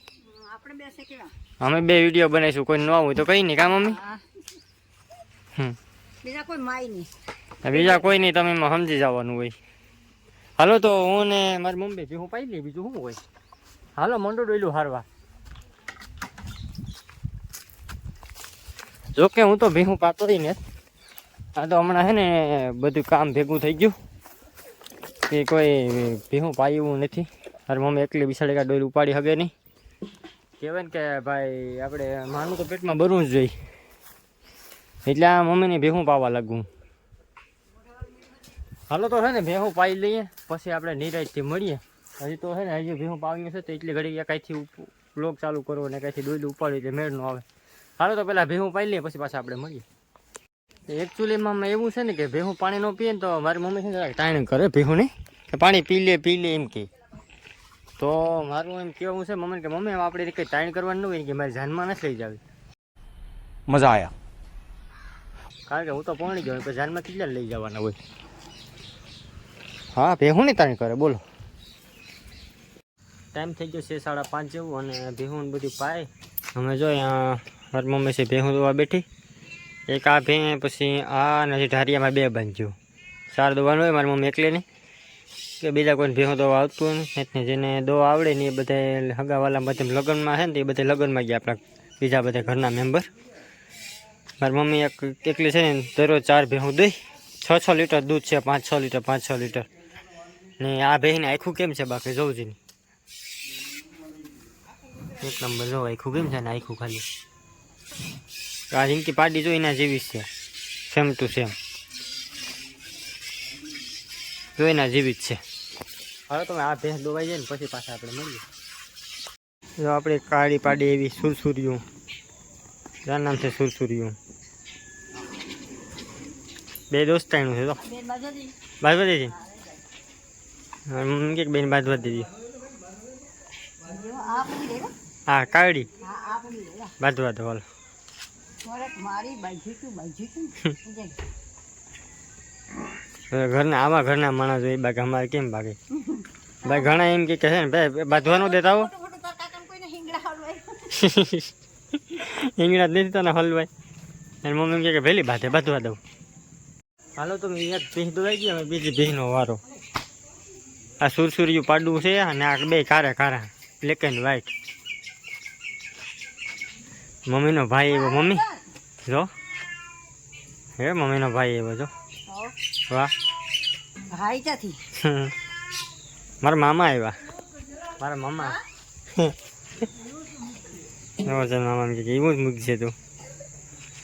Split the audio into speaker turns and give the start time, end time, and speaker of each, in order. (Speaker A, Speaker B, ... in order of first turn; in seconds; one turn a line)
Speaker A: 0.2-1.3
Speaker B: 1.6-4.0
Speaker A: 3.9-4.2
Speaker A: 6.2-7.1
Speaker B: 7.6-9.5
Speaker A: 7.7-8.0
Speaker B: 10.6-13.2
Speaker B: 14.0-15.1
Speaker B: 19.1-20.6
Speaker B: 21.6-24.0
Speaker B: 25.3-29.5
Speaker B: 30.6-33.5
Speaker B: 35.0-36.7
Speaker B: 38.9-47.5
Speaker B: 48.0-49.8
Speaker B: 50.9-56.9
Speaker B: 58.0-62.4
Speaker B: 65.7-68.0
Speaker B: 69.9-71.2
Speaker B: 73.3-79.1
Speaker B: 79.9-82.7
Speaker B: 83.3-84.7
Speaker B: 85.6-93.1
Speaker B: 94.4-99.7
Speaker B: 100.6-102.6
Speaker B: 105.2-107.1
Speaker B: 108.7-110.3
Speaker B: 110.9-111.6
Speaker B: 114.6-115.4
Speaker B: 116.3-118.4
Speaker B: 119.8-121.8
Speaker B: 123.0-124.2
Speaker B: 126.9-127.8
Speaker A: 127.8-128.5
Speaker B: 128.8-129.3
Speaker B: 130.9-132.3
Speaker A: 133.8-134.9
Speaker B: 135.3-135.9
Speaker A: 136.0-136.9
Speaker B: 137.0-137.6
Speaker A: 138.6-141.2
Speaker B: 143.3-145.8
Speaker A: 145.9-146.9
Speaker B: 146.6-148.9
Speaker A: 148.1-150.9
Speaker B: 150.9-153.7
Speaker B: 154.4-156.0
Speaker B: 157.2-159.6
Speaker B: 161.0-164.5
Speaker B: 167.3-168.4
Speaker A: 167.9-168.6
Speaker B: 169.0-169.3
Speaker B: 170.8-171.9
Speaker A: 172.3-172.6
Speaker A: 174.1-174.8
Speaker B: 175.0-175.3
Speaker B: 176.4-177.2
Speaker B: 178.0-178.6
Speaker B: 181.2-182.9